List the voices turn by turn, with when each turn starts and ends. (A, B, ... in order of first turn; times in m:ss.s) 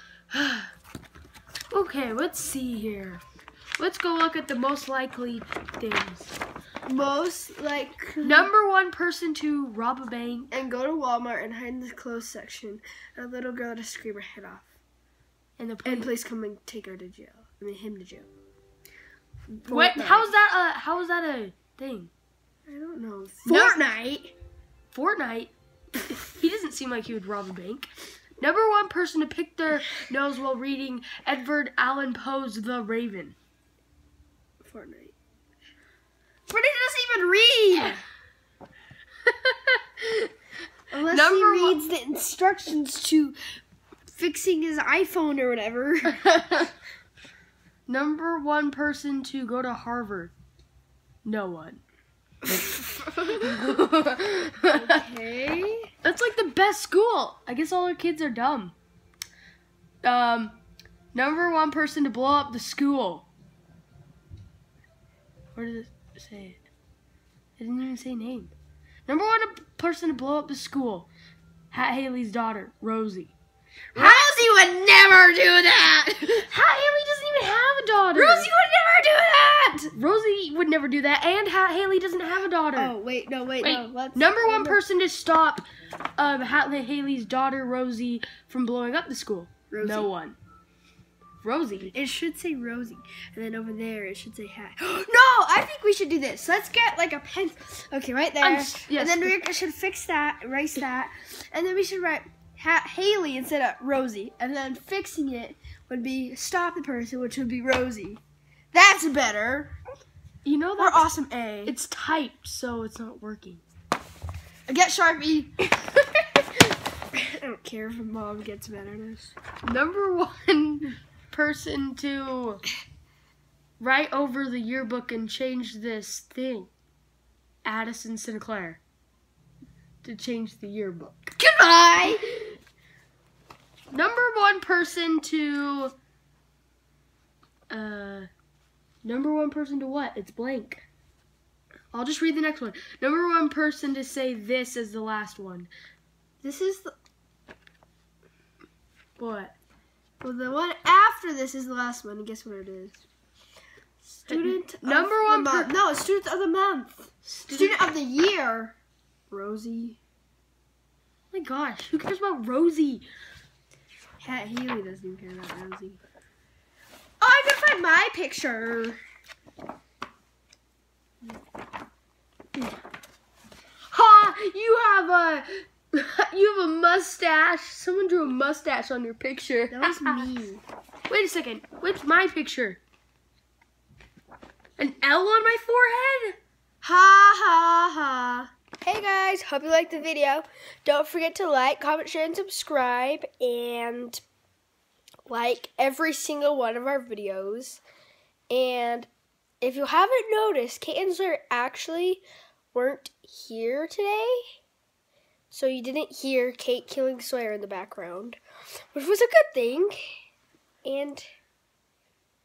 0:00.3-0:00.7 A
0:01.7-0:03.2 A
0:03.8-0:06.4 A
0:06.8-0:08.5 B
0:08.2-0:10.5 A
0:10.5-0:14.7 B
0:15.6-0:16.1 A
0:15.8-0:18.3 B
0:19.5-0:20.3 B
0:19.7-0:22.1 A
0:22.7-0:24.3 B
0:23.4-0:23.8 A
0:24.9-0:27.9 A
0:28.4-0:33.4 A
0:34.6-0:35.1 B
0:36.5-0:38.0 B
0:37.7-0:38.0 A
0:39.2-0:40.3 A
0:40.9-0:43.4 B
0:41.1-0:41.8 A
0:44.1-0:46.2 B
0:46.1-0:46.7 A
0:47.9-0:50.3 A
0:51.2-0:51.8 A
0:52.5-0:53.4 B
0:53.3-0:55.0 A
0:54.7-0:55.9 B
0:56.0-0:58.7 A
1:00.0-1:00.6 A
1:01.1-1:03.3 A
1:05.5-1:06.6 A
1:07.6-1:08.5 A
1:09.0-1:11.1 A
1:11.7-1:13.3 A
1:13.9-1:16.5 B
1:14.0-1:14.4 A
1:16.4-1:18.5 A
1:18.1-1:19.9 B
1:19.9-1:22.9 A
1:22.7-1:24.8 B
1:23.6-1:25.6 A
1:26.2-1:30.4 A
1:29.7-1:30.1 B
1:31.4-1:31.9 A
1:31.9-1:48.2 B
1:38.4-1:39.4 A
1:48.7-1:49.8 B
1:50.4-1:51.1 A
1:50.8-1:51.7 B
1:51.6-1:53.6 A
1:54.7-1:55.5 B
1:57.1-1:59.4 B
1:59.6-2:02.6 A
2:03.8-2:06.7 A
2:07.6-2:08.8 A
2:10.0-2:11.3 A
2:11.4-2:12.5 B
2:13.9-2:15.9 A
2:17.7-2:18.3 A
2:19.0-2:20.8 A
2:21.9-2:25.7 A
2:26.4-2:26.9 B
2:29.2-2:29.5 A
2:30.2-2:33.0 B
2:34.2-2:35.7 A
2:34.2-2:38.8 B
2:37.2-2:37.8 A
2:39.3-2:40.0 B
2:41.3-2:43.0 A
2:44.2-2:46.0 B
2:47.2-2:49.0 B
2:53.9-3:00.2 A
2:59.7-3:00.6 B
3:01.1-3:02.8 A
3:04.8-3:06.4 A
3:06.8-3:14.2 B
3:15.3-3:17.8 B
3:18.5-3:19.1 B
3:19.6-3:24.4 B
3:25.5-3:28.4 B
3:28.9-3:30.2 B
3:30.8-3:31.2 B